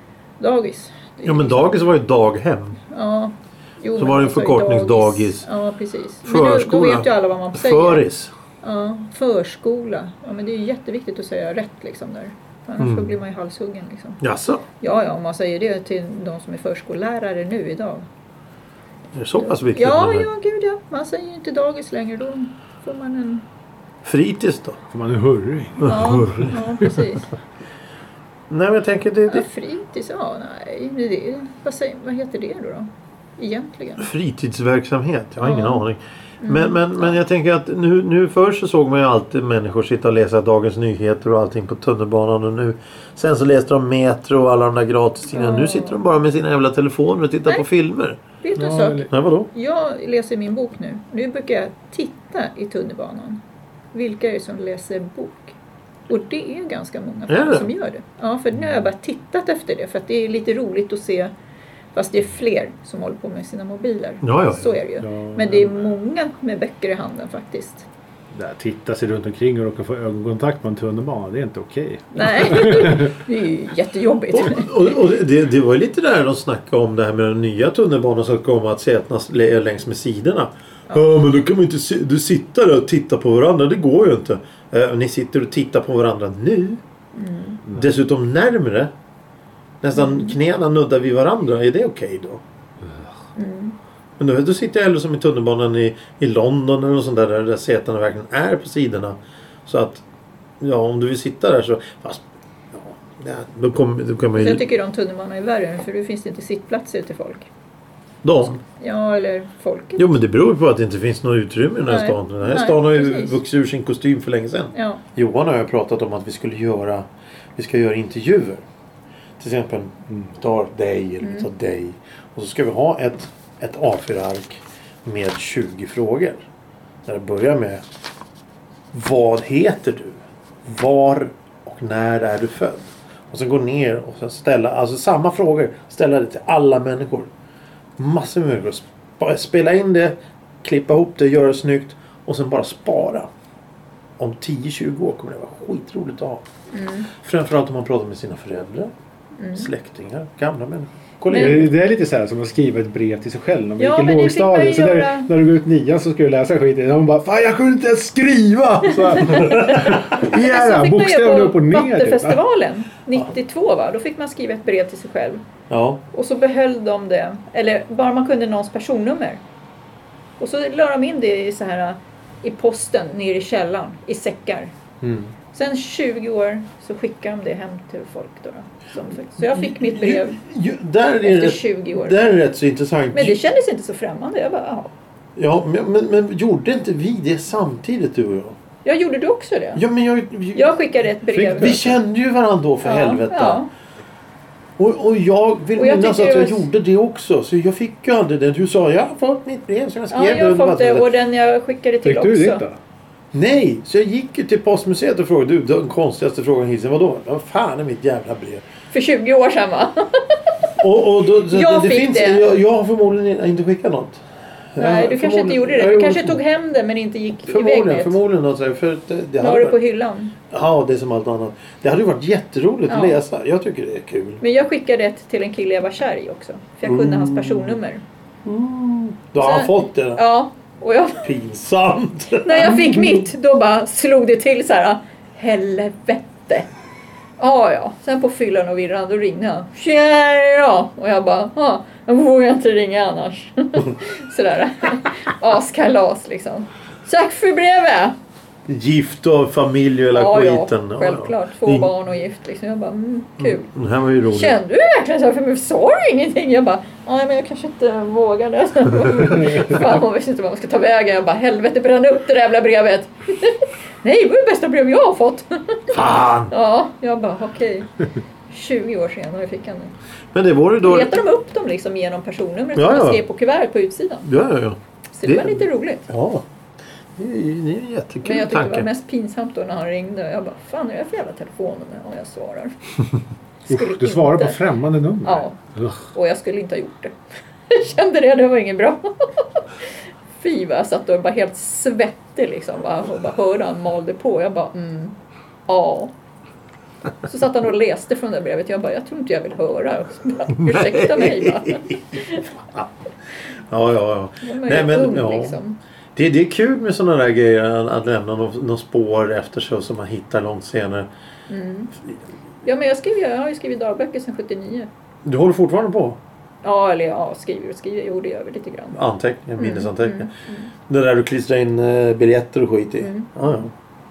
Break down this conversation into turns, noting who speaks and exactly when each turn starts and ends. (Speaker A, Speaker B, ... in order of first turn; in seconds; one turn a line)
Speaker A: 0.4-1.8
Speaker B: 1.2-2.8
Speaker A: 2.9-8.0
Speaker B: 4.0-5.5
Speaker B: 6.2-8.3
Speaker A: 8.6-14.2
Speaker B: 12.8-13.2
Speaker B: 14.2-14.7
Speaker A: 14.8-18.1
Speaker B: 19.1-20.3
Speaker A: 19.4-23.4
Speaker B: 24.0-24.8
Speaker C: 24.9-26.9
Speaker B: 25.8-26.6
Speaker A: 25.8-27.3
Speaker B: 28.5-29.4
Speaker A: 29.3-34.0
Speaker B: 34.0-48.2
Speaker A: 35.4-35.8
Speaker A: 36.4-37.2
Speaker A: 45.3-46.0
Speaker A: 48.4-53.4
Speaker C: 48.5-49.1
Speaker B: 49.1-49.5
Speaker A: 53.9-55.5
Speaker A: 56.1-61.3
Speaker B: 57.3-57.7
Speaker A: 61.9-67.9
Speaker B: 64.2-64.8
Speaker C: 65.0-65.8
Speaker C: 68.3-73.1
Speaker A: 72.1-74.7
Speaker B: 74.3-86.8
Speaker A: 87.1-87.6
Speaker B: 87.7-88.9
Speaker B: 89.8-92.4
Speaker A: 89.9-90.4
Speaker A: 93.3-93.8
Speaker B: 94.2-100.0
Speaker B: 100.6-104.6
Speaker A: 104.3-107.5
Speaker B: 108.2-108.6
Speaker A: 108.4-110.1
Speaker B: 110.0-118.6
Speaker A: 111.8-113.4
Speaker A: 114.7-115.0
Speaker B: 119.4-126.4
Speaker A: 121.2-121.5
Speaker B: 127.0-127.8
Speaker B: 128.9-137.3
Speaker B: 138.0-143.3
Speaker B: 144.2-146.4
Speaker A: 146.7-147.1
Speaker B: 147.2-148.9
Speaker A: 149.4-149.7
Speaker B: 149.5-151.7
Speaker A: 151.3-151.7
Speaker C: 151.3-162.4
Speaker A: 153.8-155.3
Speaker A: 158.8-165.4
Speaker B: 165.7-166.0
Speaker A: 166.1-169.4
Speaker A: 170.4-174.7
Speaker B: 175.0-175.3
Speaker A: 175.5-180.4
Speaker B: 179.5-183.4
Speaker A: 181.2-182.3
Speaker A: 183.1-184.9
Speaker B: 185.4-188.6
Speaker A: 188.8-189.8
Speaker B: 189.7-193.6
Speaker A: 190.5-192.0
Speaker A: 192.8-193.7
Speaker B: 194.8-201.1
Speaker A: 195.8-196.6
Speaker A: 200.1-202.6
Speaker C: 202.0-202.8
Speaker B: 203.3-208.6
Speaker A: 208.9-210.4
Speaker B: 210.8-214.2
Speaker A: 211.5-212.4
Speaker B: 214.7-216.4
Speaker A: 214.8-218.2
Speaker B: 217.5-219.8
Speaker A: 219.4-220.3
Speaker B: 220.5-224.4
Speaker A: 222.9-223.2
Speaker A: 224.4-228.0
Speaker B: 226.8-227.8
Speaker B: 228.4-230.2
Speaker A: 229.4-231.2
Speaker B: 231.2-233.2
Speaker A: 232.4-236.7
Speaker A: 237.4-248.2
Speaker B: 248.7-251.9
Speaker A: 250.1-253.7
Speaker B: 253.4-254.6
Speaker A: 254.3-265.9
Speaker B: 265.9-266.5
Speaker A: 266.5-267.9
Speaker A: 268.5-269.9
Speaker B: 270.3-271.2
Speaker A: 270.8-274.2
Speaker B: 272.7-273.2
Speaker B: 274.2-276.4
Speaker A: 275.1-276.1
Speaker B: 277.2-278.9
Speaker A: 278.2-282.7
Speaker A: 283.6-284.6
Speaker C: 283.7-286.0
Speaker A: 285.2-285.5
Speaker A: 286.1-287.1
Speaker A: 287.7-289.6
Speaker A: 290.4-295.1
Speaker A: 295.7-296.1
Speaker A: 297.2-302.6
Speaker B: 300.5-301.8
Speaker B: 303.7-305.6
Speaker A: 304.4-305.8
Speaker B: 306.1-311.1
Speaker A: 311.5-311.9
Speaker A: 312.6-314.9
Speaker B: 315.2-316.2
Speaker A: 316.6-319.0
Speaker B: 318.9-320.3
Speaker A: 319.6-320.7
Speaker B: 320.9-323.7
Speaker A: 323.0-323.3